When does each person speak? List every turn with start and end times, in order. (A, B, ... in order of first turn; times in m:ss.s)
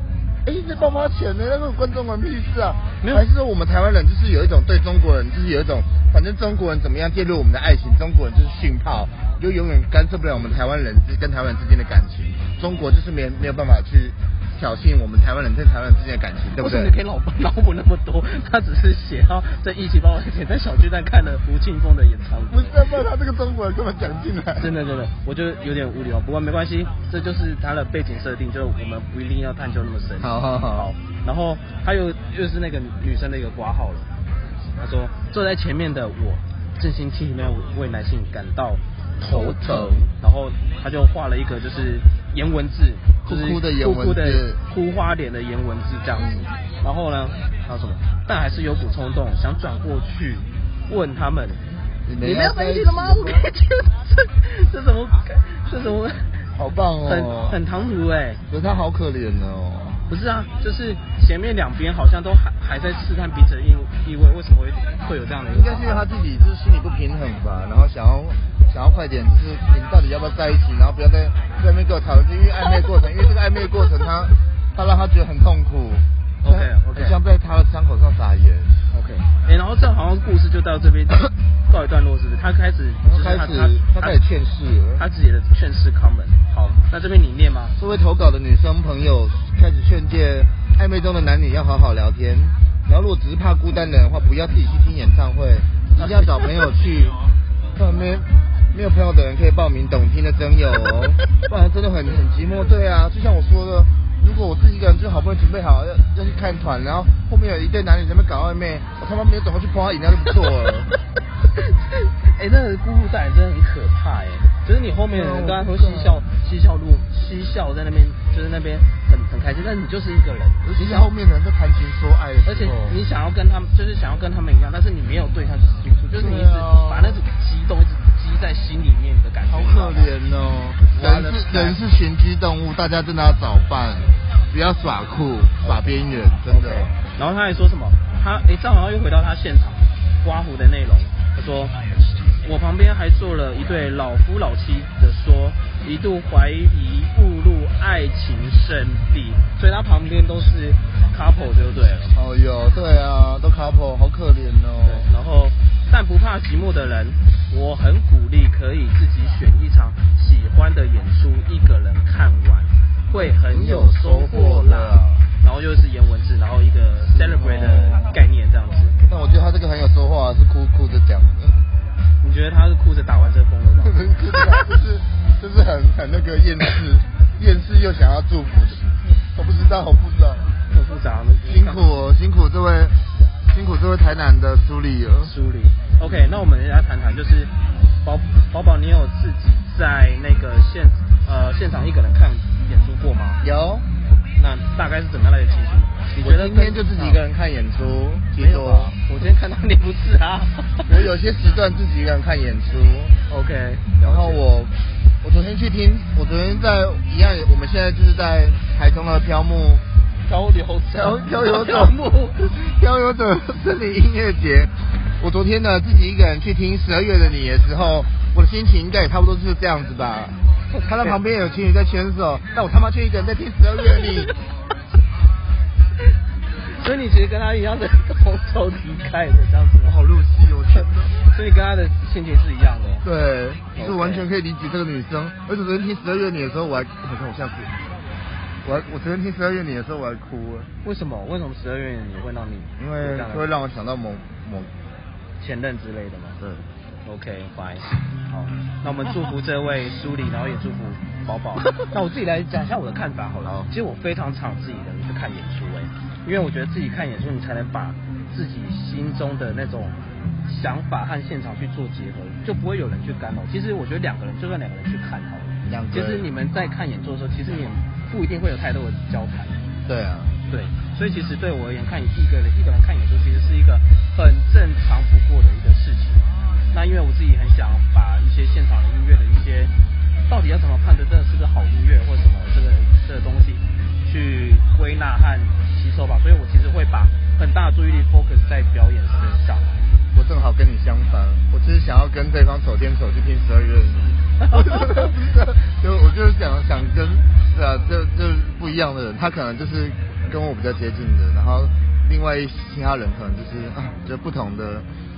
0:00.4-0:16.9 A
0:16.6-0:22.8 B
0:22.5-0:24.8 A
0:24.6-0:34.1 B
0:30.2-0:30.9 A
0:34.8-0:51.6 B
0:39.2-0:40.1 A
0:43.2-0:44.6 A
0:46.2-0:46.5 A
0:52.0-0:53.5 A
0:52.2-0:56.4 B
0:56.5-0:57.6 A
0:57.0-0:58.4 B
0:58.5-1:00.0 A
1:00.1-1:06.1 B
1:05.5-1:18.7 A
1:16.4-1:17.2 B
1:18.9-1:24.2 B
1:23.0-1:25.0 A
1:25.0-1:27.7 B
1:27.8-1:37.2 A
1:36.0-1:36.6 B
1:37.8-1:50.9 A
1:51.5-2:01.1 B
1:55.1-1:56.2 A
2:00.6-2:03.0 A
2:02.4-2:10.1 B
2:06.2-2:07.2 A
2:09.5-2:16.9 A
2:10.9-2:11.8 B
2:15.6-2:15.9 B
2:16.5-2:21.7 B
2:22.4-2:32.2 B
2:32.1-2:35.1 A
2:34.8-2:49.0 B
2:43.1-2:45.3 A
2:47.1-2:48.2 A
2:49.1-2:51.6 A
2:52.2-2:54.1 B
2:53.8-3:00.5 A
3:00.7-3:01.8 B
3:01.4-3:05.3 A
3:05.2-3:13.4 B
3:06.0-3:06.4 A
3:13.4-3:13.9 A
3:14.3-3:17.2 B
3:16.2-3:19.0 A
3:18.4-3:20.8 B
3:20.9-3:23.2 A
3:23.3-3:24.4 B
3:24.0-3:29.8 A
3:30.2-3:32.5 B
3:30.9-3:44.3 A
3:40.7-3:41.2 B
3:46.6-3:50.0 B
3:49.8-3:51.1 A
3:50.7-3:53.0 B
3:53.0-3:57.7 A
3:53.7-3:54.3 B
3:58.6-4:00.7 A
4:00.8-4:03.5 B
4:02.8-4:04.7 A
4:05.4-4:06.4 B
4:06.4-4:06.6 A
4:07.0-4:29.6 B
4:13.4-4:13.7 A
4:25.6-4:26.3 A
4:29.8-4:30.4 A
4:30.5-4:39.7 B
4:40.3-4:49.7 B
4:50.1-5:04.9 A
4:54.4-4:55.1 B